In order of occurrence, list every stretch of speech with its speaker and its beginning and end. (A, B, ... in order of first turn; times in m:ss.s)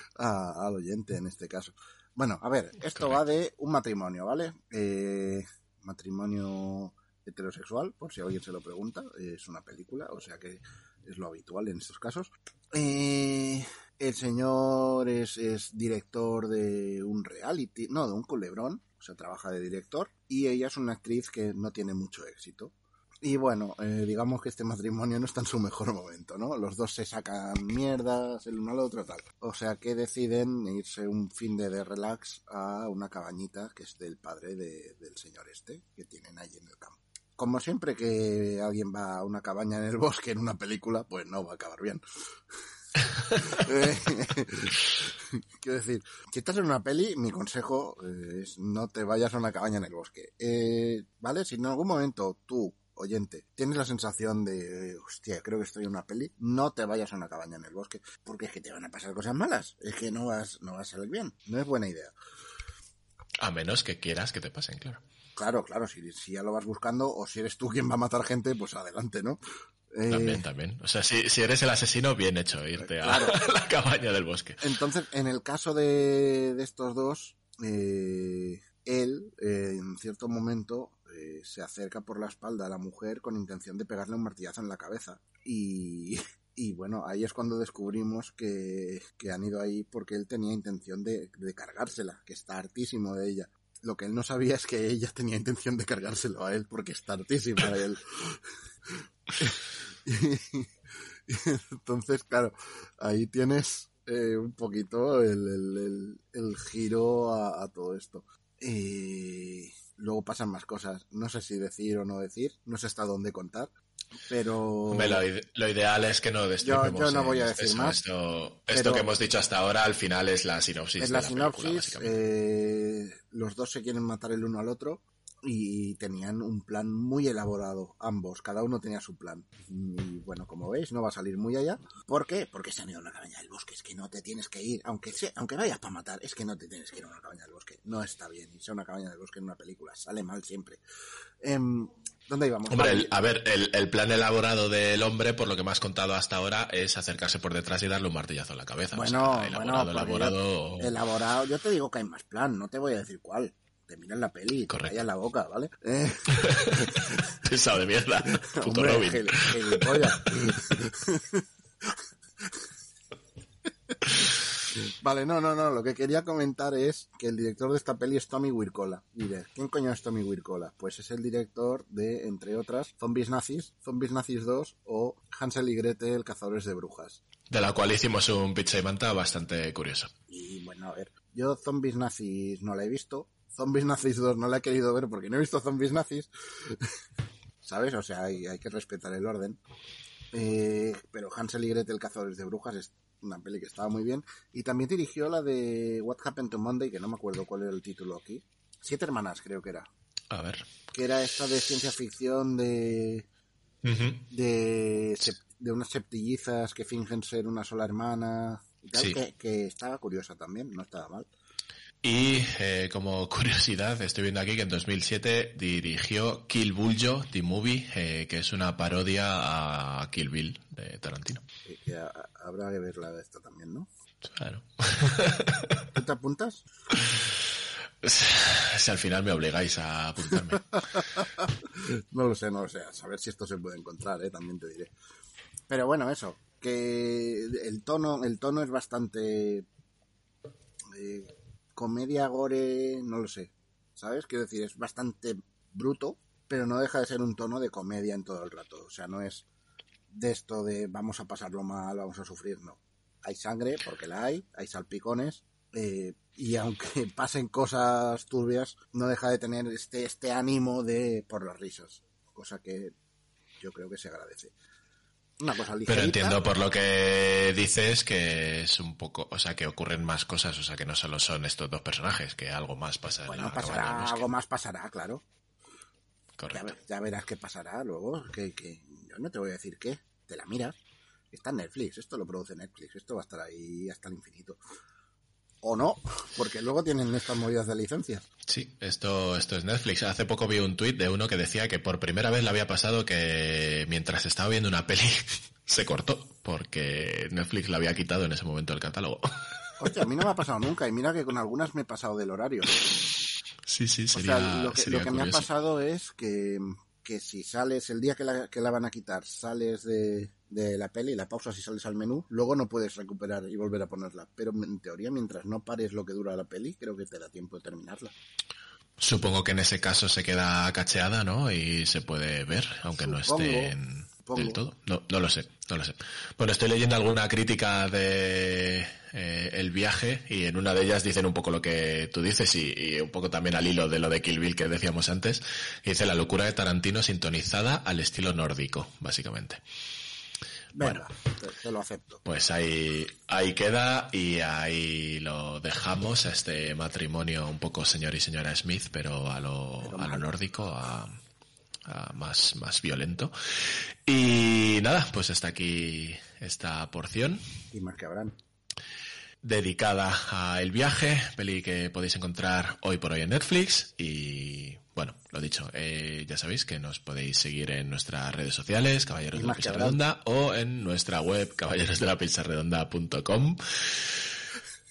0:00.2-0:42.0 A
0:02.8-0:03.2 B
0:43.3-0:45.0 A
0:45.6-1:02.1 A
1:03.4-1:05.0 B
1:05.4-1:09.4 A
1:09.9-1:10.4 A
1:10.1-1:14.6 B
1:12.8-1:13.4 A
1:14.6-1:38.4 A
1:39.4-1:40.7 A
1:41.3-1:53.7 A
1:54.3-1:55.2 A
1:54.9-2:02.1 B
1:56.6-1:58.0 A
1:58.7-1:59.1 A
2:01.0-2:20.8 A
2:21.4-2:23.2 A
2:22.7-2:31.0 B
2:28.9-2:37.1 A
2:34.7-2:35.0 B
2:36.4-2:36.9 B
2:37.4-2:40.2 B
2:38.5-2:41.4 A
2:45.0-2:57.2 A
2:57.5-3:00.1 B
3:00.3-3:06.7 A
3:07.6-3:09.6 A
3:10.3-3:19.9 A
3:20.3-3:20.7 B
3:20.9-3:23.3 A
3:23.8-3:24.2 B
3:24.3-3:31.3 A
3:32.0-3:41.4 B
3:41.6-3:43.9 A
3:44.2-3:45.8 B
3:45.9-3:46.6 A
3:47.0-3:47.3 B
3:48.0-3:51.0 B
3:51.4-3:54.9 A
3:55.7-3:59.7 A
4:00.9-4:09.4 A
4:10.1-4:22.9 A
4:23.6-4:24.5 A
4:25.4-4:26.4 A
4:25.9-4:34.3 B
4:33.3-4:35.2 A
4:36.4-4:36.7 B
4:36.5-4:40.8 A
4:41.3-4:44.6 A
4:45.6-4:48.2 A
4:48.5-4:59.2 B
4:59.8-5:02.8 A
5:03.7-5:05.5 B
5:04.1-5:18.1 A
5:19.0-5:39.6 B
5:23.0-5:23.7 A
5:24.2-5:24.6 A
5:40.7-5:42.2 A
5:40.8-5:41.0 B
5:42.2-5:51.1 B
5:49.8-5:50.3 A
5:51.8-5:57.4 B
5:57.7-5:58.3 A
5:59.4-6:14.3 B
6:09.3-6:10.0 A